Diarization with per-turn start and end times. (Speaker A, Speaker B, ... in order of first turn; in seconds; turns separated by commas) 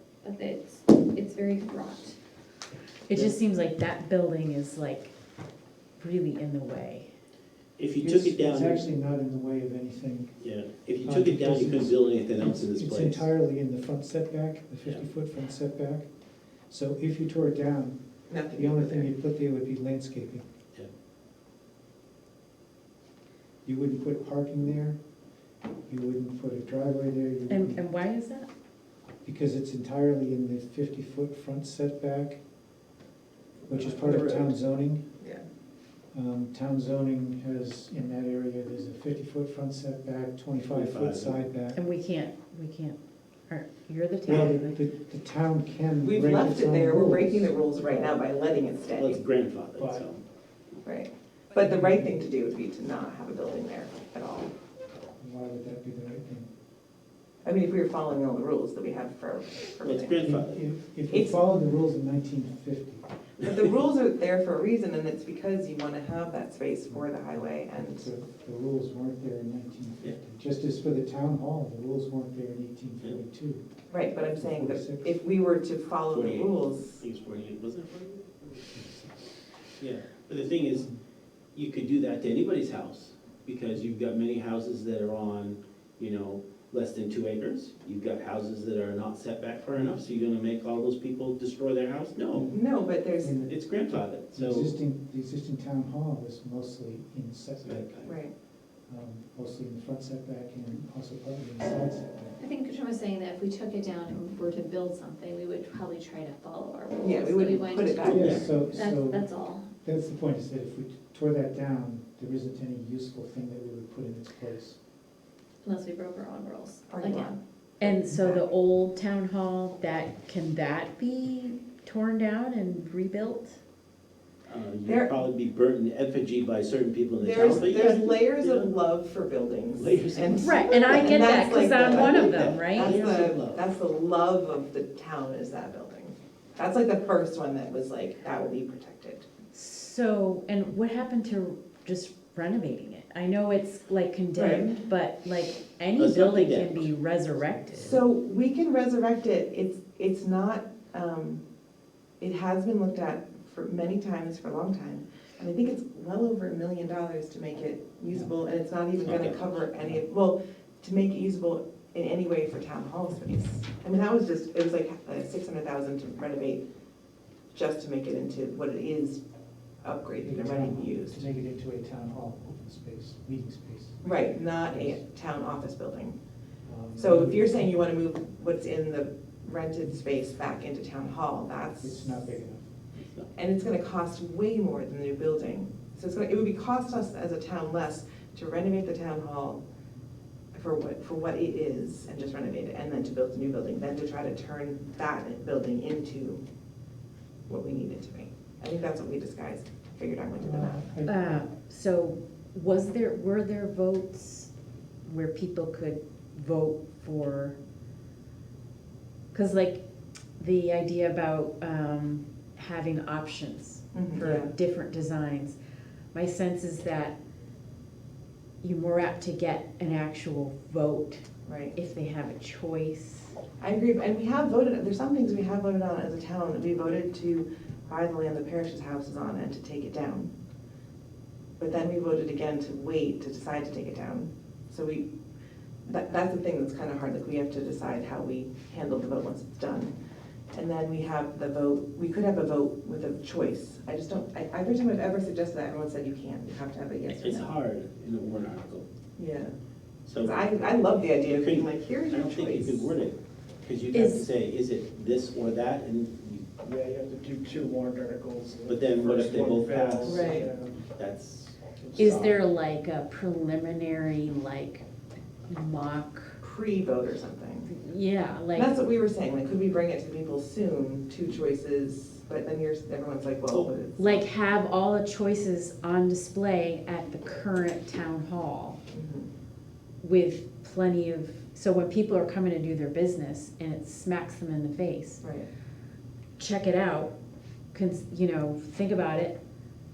Speaker A: 0.2-2.2, Speaker B: 3.1-5.1, Speaker B: 6.0-7.1, Speaker C: 7.8-8.8, Speaker D: 8.0-10.4, Speaker C: 10.4-13.3, Speaker D: 11.0-16.1, Speaker D: 16.7-18.0, Speaker E: 18.3-19.1, Speaker D: 18.5-20.5, Speaker D: 23.6-25.0, Speaker D: 25.9-27.8, Speaker B: 27.5-28.5, Speaker D: 29.2-32.4, Speaker D: 33.7-35.0, Speaker E: 33.7-34.6, Speaker D: 36.1-41.8, Speaker C: 40.7-41.4, Speaker B: 41.7-44.8, Speaker D: 44.2-48.2, Speaker E: 46.0-49.2, Speaker C: 48.9-50.2, Speaker D: 49.8-50.1, Speaker E: 50.8-54.5, Speaker D: 51.6-52.2, Speaker D: 55.2-56.5, Speaker E: 57.4-60.2, Speaker C: 59.8-60.6, Speaker D: 60.2-63.0, Speaker E: 61.1-61.4, Speaker E: 63.4-68.1, Speaker D: 66.9-73.7, Speaker E: 73.9-77.0, Speaker D: 74.3-75.2, Speaker C: 76.1-78.3, Speaker D: 78.5-79.3, Speaker C: 79.8-80.9, Speaker D: 80.7-81.0, Speaker C: 81.5-92.5, Speaker D: 92.3-92.7, Speaker E: 92.5-93.4, Speaker D: 93.2-98.1, Speaker C: 93.5-94.8, Speaker C: 97.6-98.1, Speaker E: 98.0-98.3, Speaker D: 98.9-102.4, Speaker A: 102.4-109.7, Speaker E: 107.0-108.5, Speaker C: 108.0-108.5, Speaker D: 108.0-114.8, Speaker A: 115.6-117.4, Speaker E: 116.9-118.5, Speaker B: 117.8-123.6, Speaker C: 124.5-128.8, Speaker E: 124.9-125.1, Speaker E: 127.2-139.3, Speaker C: 129.8-133.6, Speaker B: 130.4-133.1, Speaker B: 139.5-148.0, Speaker E: 144.4-144.8, Speaker C: 146.0-146.9, Speaker E: 147.7-151.4, Speaker E: 152.2-166.6, Speaker C: 159.0-159.4, Speaker E: 167.5-169.2, Speaker E: 169.8-171.2, Speaker D: 170.2-175.0, Speaker E: 174.0-176.2, Speaker D: 176.7-177.8, Speaker E: 177.0-182.3, Speaker D: 181.8-182.7, Speaker C: 182.9-183.3, Speaker E: 183.3-189.6, Speaker E: 190.5-196.4, Speaker E: 197.5-200.8, Speaker D: 200.4-201.4, Speaker B: 201.1-204.5, Speaker B: 205.0-207.6, Speaker B: 209.3-209.8, Speaker B: 210.4-215.6, Speaker E: 213.9-214.5, Speaker B: 216.1-217.2, Speaker B: 218.6-223.3, Speaker E: 221.5-221.8, Speaker E: 223.6-230.3, Speaker E: 231.6-235.1, Speaker E: 235.9-239.9, Speaker E: 240.5-247.5, Speaker C: 247.1-248.9, Speaker E: 249.2-249.5, Speaker C: 250.1-256.5, Speaker E: 250.2-253.0, Speaker B: 253.9-254.3, Speaker F: 256.6-260.8, Speaker C: 258.7-260.4, Speaker B: 260.0-260.4, Speaker E: 260.1-260.5, Speaker C: 260.9-262.2, Speaker F: 261.8-262.3, Speaker B: 262.0-264.9, Speaker B: 265.5-266.4, Speaker E: 266.4-267.7, Speaker B: 267.7-268.7, Speaker E: 268.5-274.2, Speaker B: 274.0-278.8, Speaker E: 278.9-279.3, Speaker B: 280.0-285.2, Speaker E: 285.2-285.5, Speaker B: 286.4-287.1, Speaker B: 287.7-289.4